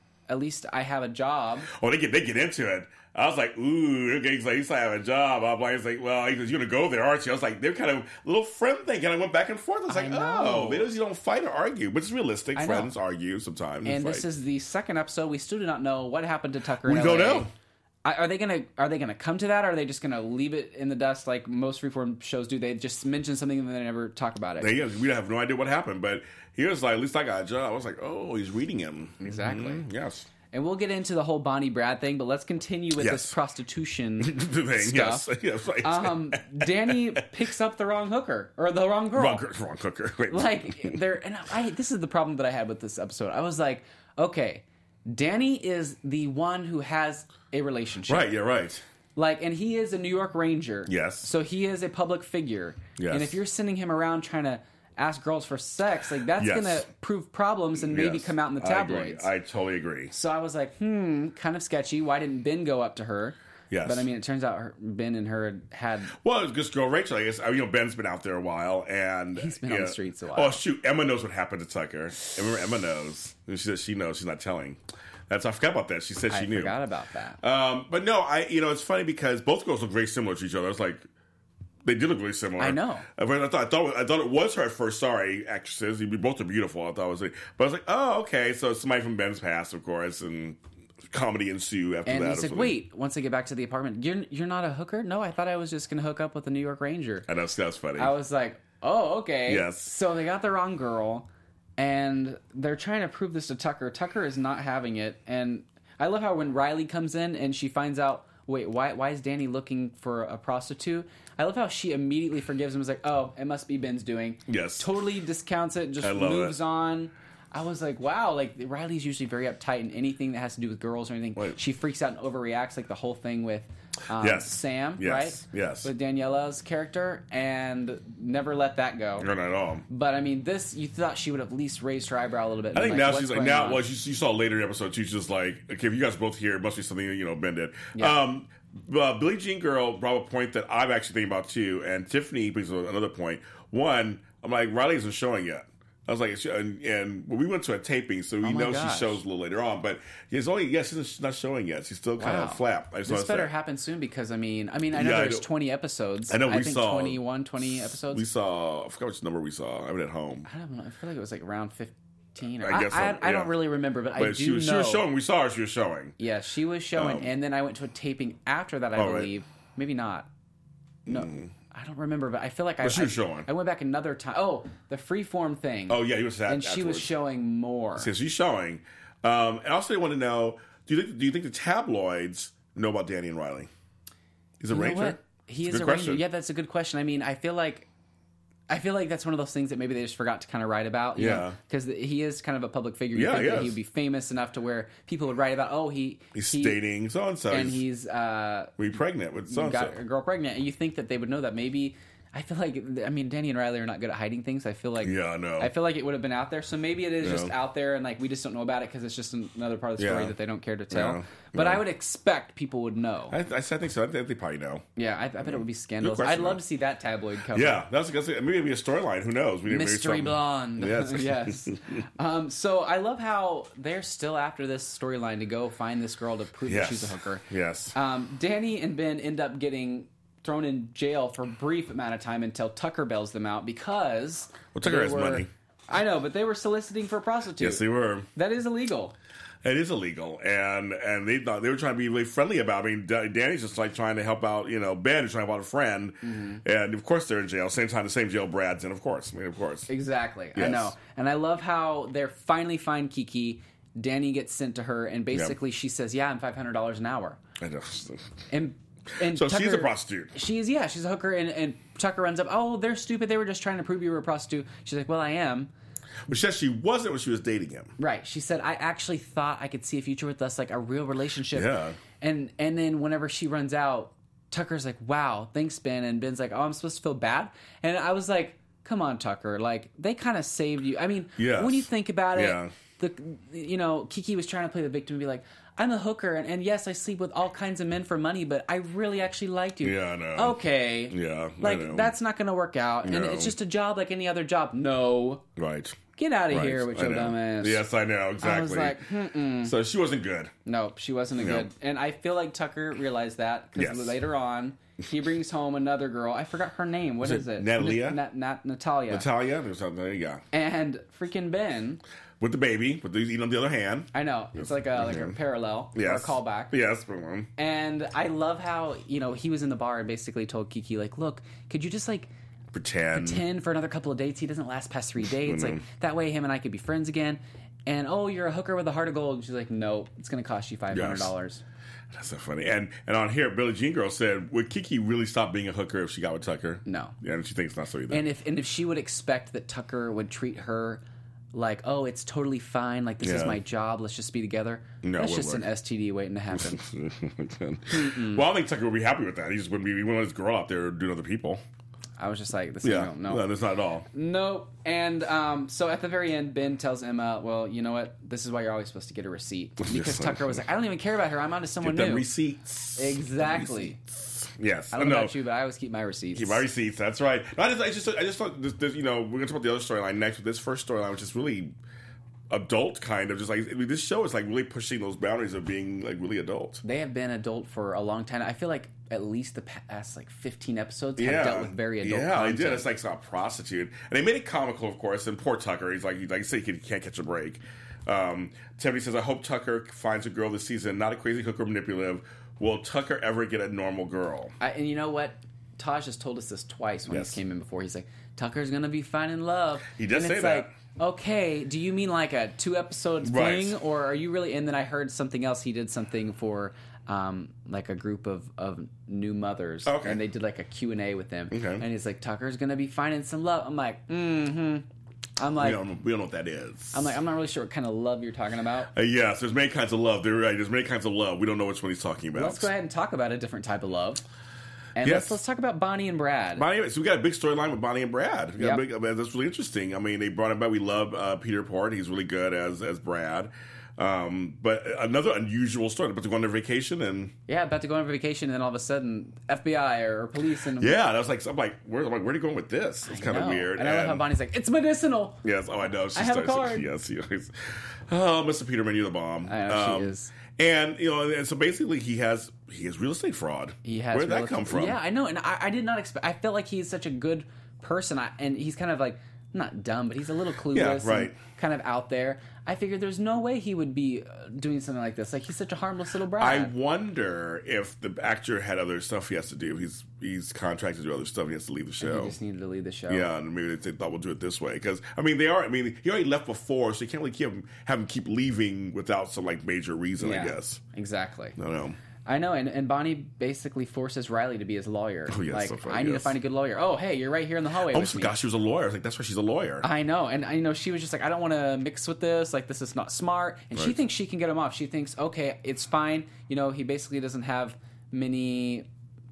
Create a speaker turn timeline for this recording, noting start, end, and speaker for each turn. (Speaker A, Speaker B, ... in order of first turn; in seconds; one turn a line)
Speaker A: 0.3-1.7
Speaker B: 1.7-14.3
Speaker A: 9.9-10.9
Speaker A: 12.6-12.9
Speaker A: 13.8-17.5
Speaker B: 16.8-17.5
Speaker A: 18.0-24.8
Speaker B: 24.6-30.3
Speaker A: 29.2-29.9
Speaker A: 30.5-35.3
Speaker B: 33.0-33.4
Speaker B: 34.2-37.3
Speaker A: 35.8-39.5
Speaker B: 39.1-41.0
Speaker A: 40.3-48.3
Speaker B: 48.1-48.8
Speaker A: 49.2-59.3
Speaker B: 50.9-51.3
Speaker B: 53.0-53.4
Speaker B: 56.4-56.9
Speaker B: 57.8-60.1
Speaker A: 60.1-66.2
Speaker B: 63.7-64.1
Speaker B: 66.2-76.8
Speaker A: 69.4-70.6
Speaker A: 76.3-77.4
Speaker B: 77.4-81.1
Speaker B: 81.8-90.6
Speaker A: 82.6-83.1
Speaker B: 91.1-92.8
Speaker A: 92.0-97.3
Speaker B: 97.3-98.2
Speaker A: 98.0-101.3
Speaker B: 99.5-99.9
Speaker A: 101.8-129.3
Speaker B: 114.5-114.9
Speaker B: 116.0-116.6
Speaker B: 124.2-125.9
Speaker B: 129.2-129.9
Speaker A: 129.9-133.8
Speaker B: 132.7-153.5
Speaker A: 137.9-138.2
Speaker A: 148.4-149.2
Speaker A: 152.2-158.2
Speaker B: 154.9-155.5
Speaker B: 156.3-160.5
Speaker A: 160.5-165.1
Speaker B: 162.6-166.2
Speaker A: 166.2-170.3
Speaker B: 166.9-167.3
Speaker B: 168.9-169.3
Speaker B: 171.1-171.5
Speaker A: 171.1-178.1
Speaker B: 172.8-173.5
Speaker B: 175.9-177.1
Speaker B: 178.0-183.7
Speaker B: 184.6-186.2
Speaker A: 184.7-187.9
Speaker A: 188.7-196.8
Speaker B: 191.2-191.6
Speaker B: 193.1-193.8
Speaker B: 196.3-197.8
Speaker A: 197.5-198.8
Speaker B: 198.8-200.0
Speaker A: 199.5-213.4
Speaker B: 205.0-205.7
Speaker B: 207.2-207.6
Speaker B: 210.0-210.4
Speaker B: 210.9-211.8
Speaker B: 213.3-214.8
Speaker A: 215.0-217.8
Speaker B: 215.4-216.6
Speaker B: 217.5-221.9
Speaker A: 219.7-239.2
Speaker B: 226.7-228.0
Speaker B: 234.7-235.5
Speaker B: 237.6-238.3
Speaker B: 239.6-249.9
Speaker A: 246.2-246.6
Speaker A: 249.9-257.4
Speaker B: 250.6-250.9
Speaker B: 257.6-258.3
Speaker A: 258.5-265.7
Speaker B: 259.2-260.3
Speaker B: 266.3-267.9
Speaker A: 268.0-295.4
Speaker B: 271.5-272.0
Speaker B: 281.4-282.7
Speaker B: 289.8-292.1
Speaker B: 293.0-293.6
Speaker B: 295.6-296.0
Speaker A: 296.2-297.8
Speaker B: 296.5-300.5
Speaker A: 298.4-299.8
Speaker A: 300.6-309.3
Speaker B: 301.4-301.7
Speaker B: 303.8-304.2
Speaker B: 307.2-308.2
Speaker B: 309.1-310.4
Speaker A: 310.5-312.0
Speaker B: 312.4-315.4
Speaker A: 314.1-316.8
Speaker B: 315.9-317.5
Speaker A: 317.6-322.3
Speaker B: 322.7-323.4
Speaker A: 323.1-331.6
Speaker B: 325.4-325.8
Speaker B: 330.9-331.3
Speaker B: 332.1-338.2
Speaker A: 336.9-337.2
Speaker A: 338.1-341.0
Speaker A: 341.5-346.8
Speaker B: 343.2-343.6
Speaker B: 345.0-345.7
Speaker B: 346.5-351.6
Speaker A: 347.9-348.4
Speaker A: 352.2-353.5
Speaker B: 352.8-354.1
Speaker A: 354.1-362.3
Speaker B: 359.8-360.6
Speaker B: 361.8-365.4
Speaker A: 363.0-364.0
Speaker A: 364.9-366.6
Speaker B: 366.3-371.8
Speaker B: 372.5-376.8
Speaker A: 376.8-382.9
Speaker B: 381.2-394.5
Speaker A: 394.6-414.9
Speaker B: 397.1-397.4
Speaker B: 399.9-400.7
Speaker B: 403.2-403.8
Speaker B: 409.9-410.2
Speaker B: 411.5-411.9
Speaker A: 415.4-415.8
Speaker B: 415.6-417.2
Speaker A: 416.9-418.9
Speaker B: 418.9-422.7
Speaker A: 422.3-424.2
Speaker A: 425.0-426.7
Speaker B: 425.0-425.4
Speaker B: 426.6-437.3
Speaker A: 428.6-428.8
Speaker A: 437.5-441.0
Speaker B: 440.7-444.3
Speaker A: 443.1-445.4
Speaker B: 445.4-455.0
Speaker A: 446.1-446.9
Speaker A: 449.5-450.3
Speaker A: 453.9-466.7
Speaker B: 460.7-461.4
Speaker B: 466.4-472.4
Speaker A: 472.0-473.3
Speaker B: 473.1-480.8
Speaker A: 480.2-481.6
Speaker B: 481.6-482.0
Speaker A: 482.2-488.4
Speaker B: 485.3-486.4
Speaker B: 487.9-489.9
Speaker A: 489.8-498.9